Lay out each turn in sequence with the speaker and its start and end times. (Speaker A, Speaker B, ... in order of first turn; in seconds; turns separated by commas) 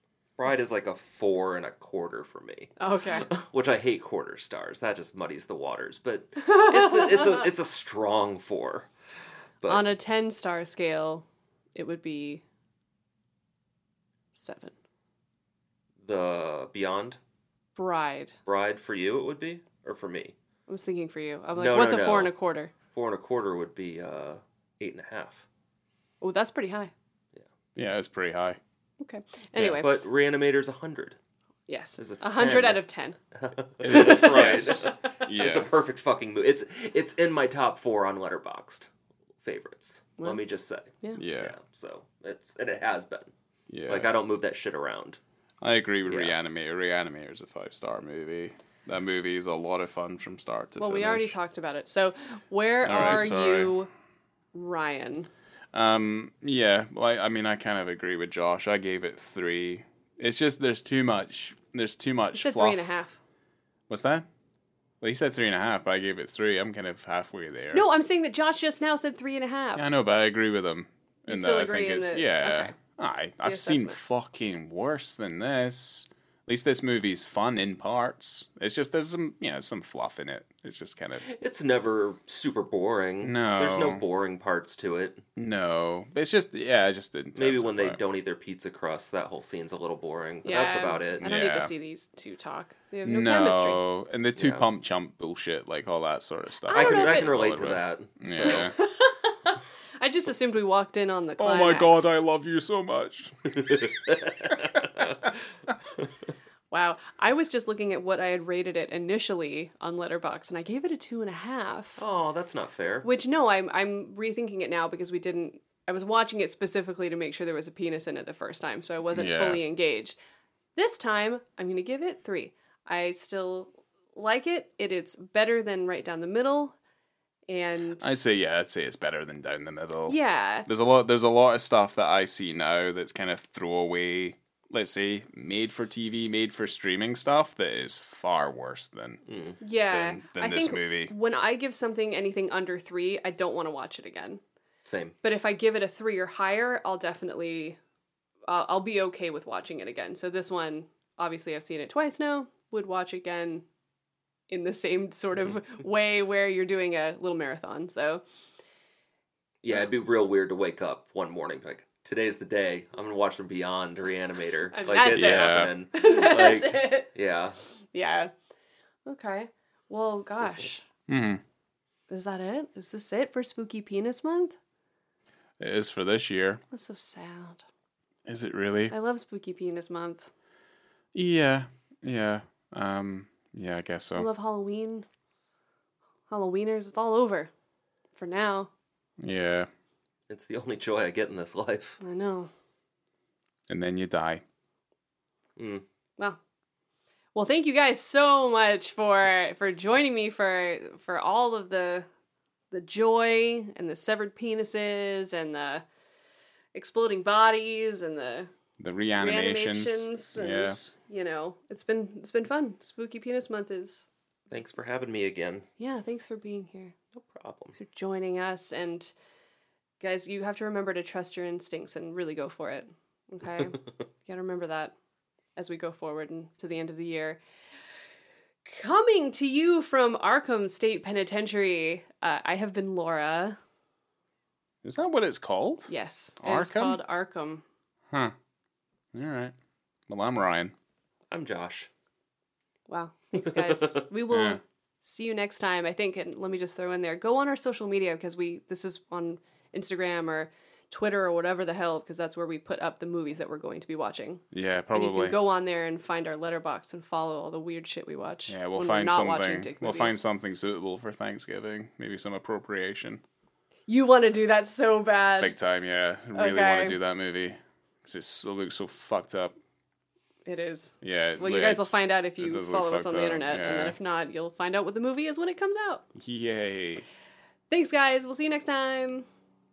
Speaker A: 0.4-8.9, Speaker B: 2.8-3.3, Speaker B: 6.5-7.2, Speaker B: 9.7-12.4, Speaker B: 14.3-14.7, Speaker A: 16.0-17.2, Speaker B: 17.8-18.3, Speaker A: 18.4-20.3, Speaker B: 20.7-22.7, Speaker A: 21.5-22.3, Speaker A: 22.9-25.4, Speaker B: 26.2-26.9, Speaker C: 27.8-28.6, Speaker B: 29.0-29.9, Speaker A: 29.7-31.1, Speaker B: 31.7-33.2, Speaker A: 32.0-32.8, Speaker A: 33.3-38.9, Speaker C: 33.8-35.7, Speaker B: 33.9-34.9, Speaker A: 39.4-43.3, Speaker C: 41.1-41.5, Speaker C: 43.7-44.1, Speaker A: 43.9-45.2, Speaker C: 45.6-51.3, Speaker A: 46.1-46.3, Speaker B: 50.8-53.9, Speaker C: 52.8-53.7, Speaker B: 54.5-55.3, Speaker C: 55.7-63.0, Speaker B: 62.3-63.2, Speaker C: 63.9-64.3, Speaker C: 65.0-67.8, Speaker B: 67.7-69.9, Speaker C: 69.8-81.2, Speaker B: 71.3-72.8, Speaker B: 73.4-74.0, Speaker A: 81.2-85.2, Speaker C: 83.2-84.0, Speaker C: 85.3-88.0, Speaker A: 87.3-91.4, Speaker B: 90.4-93.8, Speaker C: 91.2-91.7, Speaker C: 93.0-98.8, Speaker A: 94.4-94.7, Speaker B: 96.7-97.3, Speaker A: 96.7-98.7, Speaker B: 98.4-102.0, Speaker C: 101.4-103.9, Speaker A: 103.7-105.1, Speaker C: 104.4-104.8, Speaker B: 106.7-112.0, Speaker A: 112.0-113.1, Speaker B: 113.0-120.2, Speaker C: 119.1-119.6, Speaker B: 120.8-126.7, Speaker B: 127.5-128.2, Speaker C: 128.0-139.2, Speaker B: 130.1-130.7, Speaker A: 139.3-139.6, Speaker B: 139.6-144.4, Speaker C: 139.9-141.1, Speaker A: 144.8-145.2, Speaker B: 145.2-147.8, Speaker B: 148.5-153.6, Speaker B: 154.5-158.2, Speaker A: 159.6-167.6, Speaker B: 164.7-167.1, Speaker C: 165.1-165.7, Speaker B: 167.9-168.3, Speaker B: 169.1-170.8, Speaker C: 171.1-171.4, Speaker B: 172.1-174.6, Speaker C: 175.6-176.6, Speaker B: 176.7-177.6, Speaker C: 178.2-178.9, Speaker B: 178.9-180.3, Speaker C: 181.1-184.3, Speaker B: 184.2-185.1, Speaker B: 186.3-187.5, Speaker B: 188.2-188.7, Speaker C: 189.2-189.7, Speaker A: 190.3-192.0, Speaker B: 192.0-192.5, Speaker C: 193.7-194.4, Speaker A: 195.6-195.8, Speaker B: 197.3-202.1, Speaker B: 202.7-205.8, Speaker B: 206.7-208.5, Speaker C: 208.8-210.8, Speaker B: 209.2-214.1, Speaker A: 214.5-215.7, Speaker B: 215.8-216.9, Speaker A: 217.1-217.7, Speaker B: 217.7-219.1, Speaker B: 220.0-224.9, Speaker B: 225.6-227.4, Speaker B: 228.7-233.6, Speaker C: 234.8-237.0, Speaker B: 235.9-237.6, Speaker C: 239.1-239.5, Speaker C: 240.1-240.7, Speaker A: 241.3-241.9, Speaker B: 242.9-260.2, Speaker A: 243.4-244.0, Speaker C: 244.3-244.6, Speaker C: 254.5-255.4, Speaker C: 258.5-263.2, Speaker B: 263.9-265.6, Speaker C: 265.4-269.5, Speaker B: 266.3-267.0, Speaker B: 270.4-276.0, Speaker C: 271.0-273.9, Speaker C: 276.1-277.0, Speaker B: 277.7-279.2